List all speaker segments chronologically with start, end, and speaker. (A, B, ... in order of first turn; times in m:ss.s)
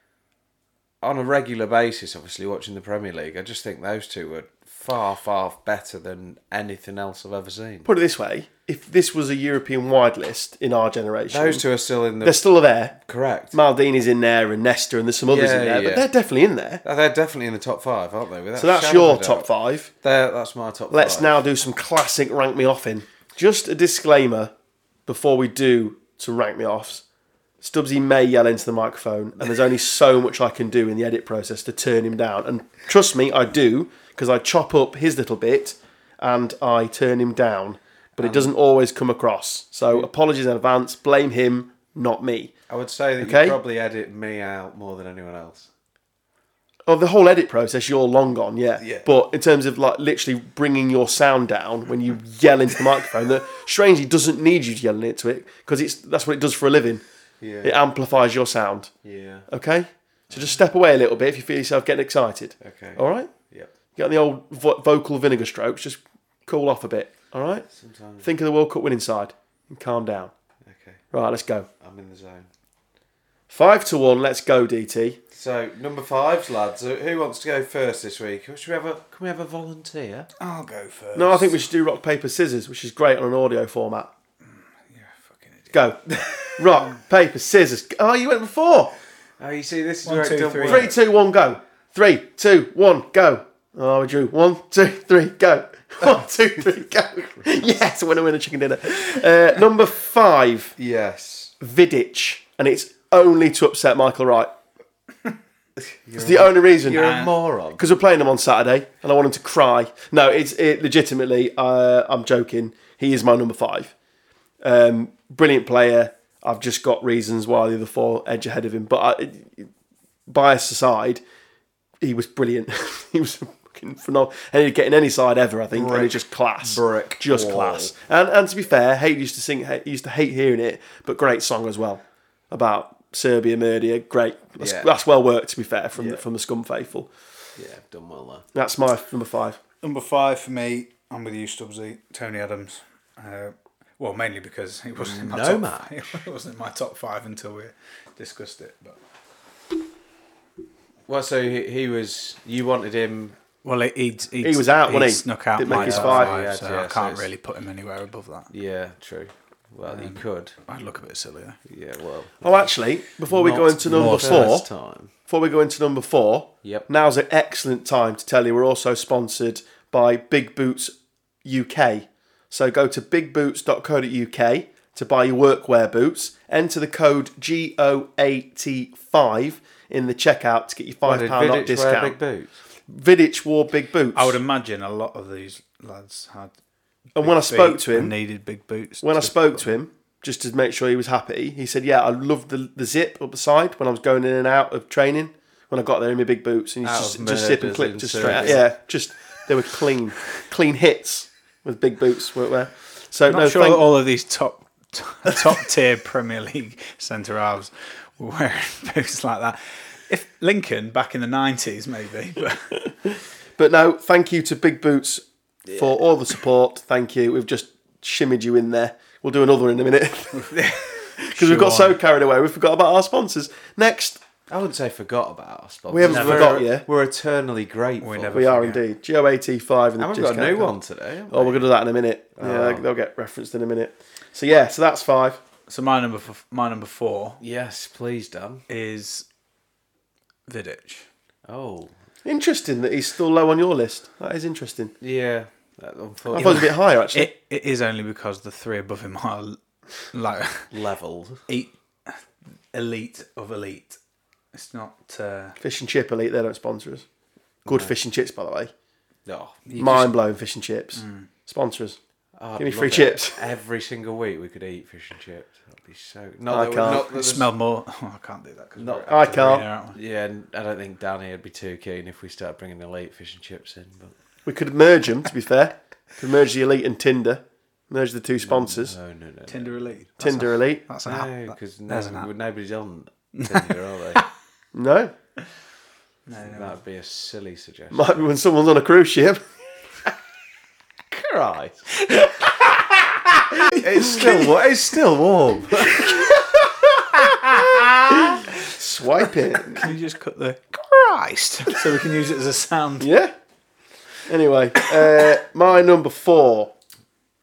0:01.0-0:07.9 A
0:07.8-0:11.6 B
0:11.3-0:12.4 A
0:12.2-0:13.0 B
0:13.0-0:13.6 A
0:13.5-0:16.8 B
0:15.3-0:16.1 A
0:16.8-0:19.5 A
0:18.6-0:19.9 B
0:20.0-0:21.4 A
0:20.9-0:24.5 B
0:25.1-0:27.0 B
0:27.6-0:42.5 B
0:38.2-0:38.5 A
0:42.7-0:45.7 A
0:43.2-0:43.6 B
0:46.9-0:57.0 B
0:48.8-0:49.1 A
0:57.4-0:57.8 A
0:57.6-0:58.9 B
0:59.0-0:59.5 A
0:59.5-1:03.3 B
1:02.6-1:03.7 A
1:04.0-1:07.7 B
1:07.7-1:08.3 A
1:08.2-1:10.3 B
1:10.7-1:11.0 A
1:11.1-1:11.7 B
1:11.8-1:12.5 A
1:13.5-1:15.2 B
1:15.3-1:20.3 A
1:20.4-1:21.6 C
1:21.2-1:24.1 B
1:24.9-1:25.7 C
1:25.7-1:26.0 B
1:26.1-1:26.6 A
1:26.6-1:28.9 B
1:29.4-1:31.0 A
1:30.0-1:30.9 C
1:30.7-1:40.8 B
1:40.8-1:41.5 A
1:41.6-1:44.5 B
1:45.8-1:47.8 A
1:46.2-1:47.1 B
1:46.9-1:47.3 C
1:47.8-1:53.9 B
1:54.6-1:59.7 B
2:00.3-2:01.2 B
2:02.0-2:17.1 B
2:05.7-2:07.9 A
2:14.6-2:14.9 A
2:16.0-2:16.2 A
2:17.6-2:18.4 A
2:18.5-2:19.6 B
2:19.8-2:29.0 C
2:25.0-2:26.2 A
2:31.1-2:33.4 A
2:33.6-2:38.5 C
2:34.4-2:36.4 B
2:35.6-2:37.3 A
2:38.5-2:40.6 A
2:39.8-2:41.6 C
2:41.7-2:42.7 A
2:42.4-2:44.7 B
2:43.3-2:45.1 A
2:43.8-2:44.5 C
2:45.3-3:02.2 B
3:01.0-3:02.5 A
3:02.9-3:04.4 B
3:04.1-3:06.5 C
3:07.2-3:09.6 C
3:07.2-3:08.2 B
3:09.0-3:23.8 B
3:16.8-3:18.7 A
3:23.3-3:32.9 C
3:33.6-3:40.6 B
3:40.3-3:42.0 C
3:41.2-3:44.2 B
3:44.5-3:48.4 A
3:45.9-3:46.8 B
3:46.0-3:46.6 C
3:48.0-3:48.8 C
3:48.3-3:50.8 B
3:50.0-3:51.7 A
3:51.3-3:55.4 B
3:52.4-3:52.9 A
3:55.7-3:57.4 C
3:57.4-3:58.6 A
3:58.7-3:59.3 C
4:00.5-4:01.1 C
4:01.5-4:01.9 A
4:02.2-4:04.9 B
4:05.0-4:06.7 A
4:06.3-4:07.3 B
4:06.4-4:09.6 C
4:10.1-4:10.7 C
4:10.7-4:11.4 A
4:11.5-4:12.2 C
4:12.7-4:14.0 C
4:14.5-4:15.6 C
4:15.6-4:17.0 B
4:17.7-4:17.9 A
4:17.7-4:18.7 B
4:19.3-4:19.6 A
4:19.7-4:20.2 C
4:19.8-4:22.0 B
4:21.0-4:21.3 C
4:22.4-4:27.5 A
4:22.6-4:23.4 B
4:26.5-4:27.1 B
4:26.8-4:30.0 C
4:28.8-4:29.1 A
4:29.1-4:29.7 B
4:29.9-4:34.2 A
4:34.4-4:39.0 B
4:38.4-4:40.0 A
4:39.5-4:42.3 C
4:40.2-4:40.8 B
4:41.0-4:44.2 A
4:43.4-4:44.3 C
4:44.7-4:45.1 B
4:46.3-4:46.8 C
4:46.4-4:48.2 A
4:47.9-4:49.4 B
4:51.1-4:51.9 A
4:52.0-4:54.5 C
4:53.7-4:56.1 A
4:56.0-4:58.7 C
4:58.3-4:59.9 B
4:59.7-5:03.1 C
5:03.0-5:03.3 B
5:04.3-5:06.7 B
5:04.8-5:05.3 C